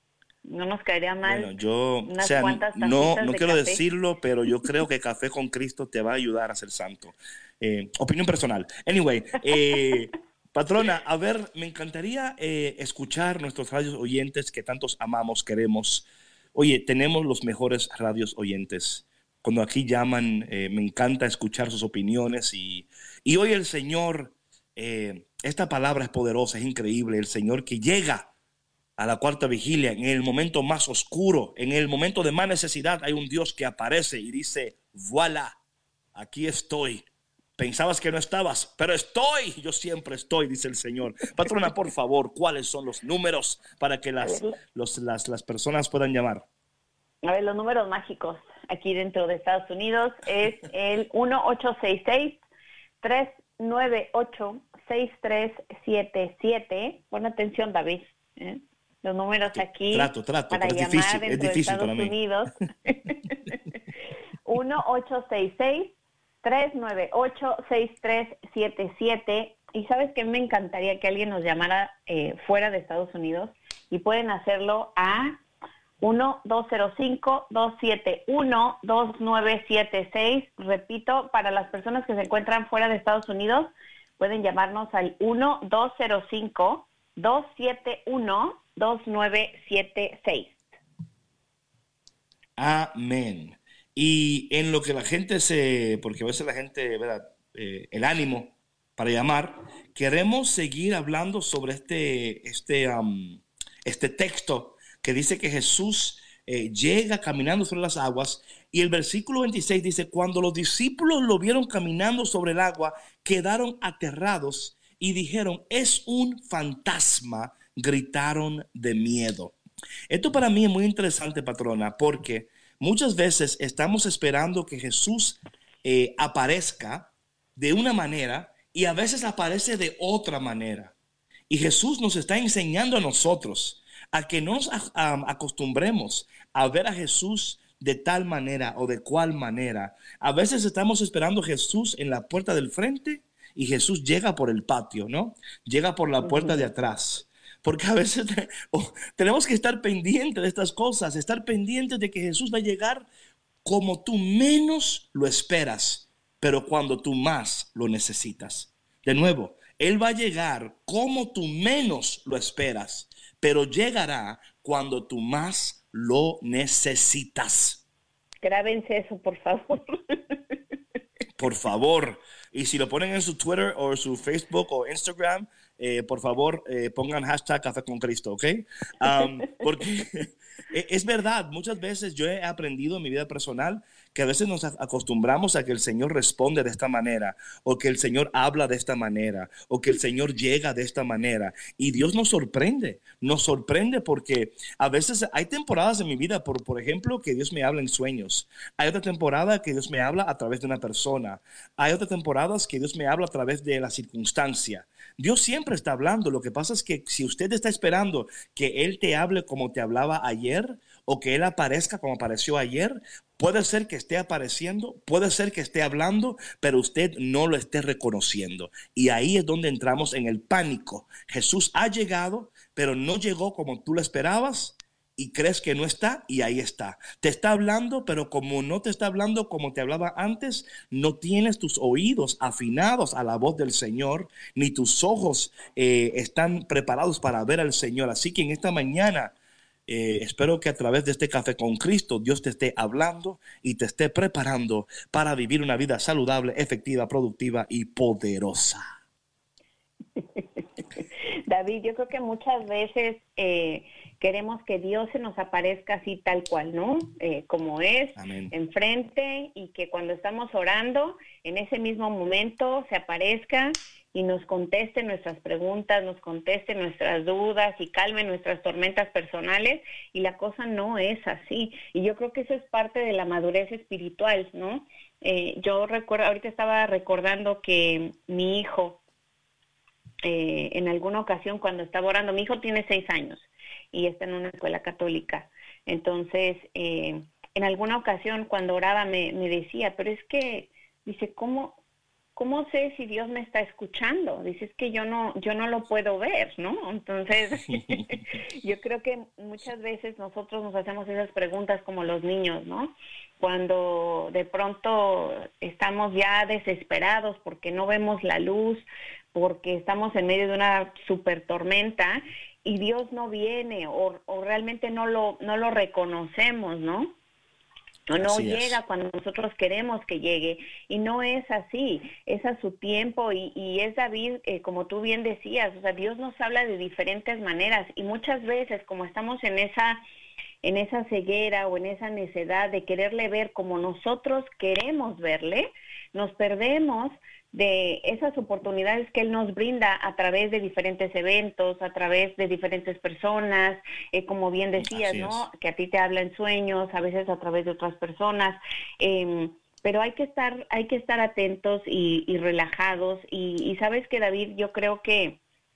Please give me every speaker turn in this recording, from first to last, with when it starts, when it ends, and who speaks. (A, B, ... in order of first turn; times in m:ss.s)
0:00.4-0:01.5 A
0:01.2-0:28.3 B
0:02.0-0:03.8 A
0:29.0-0:35.6 B
0:36.1-0:37.0 B
0:37.6-0:46.4 B
0:44.2-0:44.6 A
0:47.2-0:52.4 A
0:53.0-1:03.6 A
0:59.6-1:02.1 B
1:04.4-1:15.4 A
1:16.0-1:30.6 A
1:32.6-1:59.6 B
2:00.1-2:10.9 B
2:11.5-2:33.1 B
2:26.2-2:26.6 A
2:33.6-2:47.8 B
2:48.4-2:50.4 A
2:51.4-3:59.3 B
3:59.9-4:08.8 B
4:10.2-4:39.0 A
4:18.2-4:18.5 B
4:40.2-4:51.8 A
4:52.4-5:17.1 A
5:18.1-5:30.0 A
5:18.1-5:18.8 B
5:30.6-5:55.4 A
5:44.8-5:45.4 B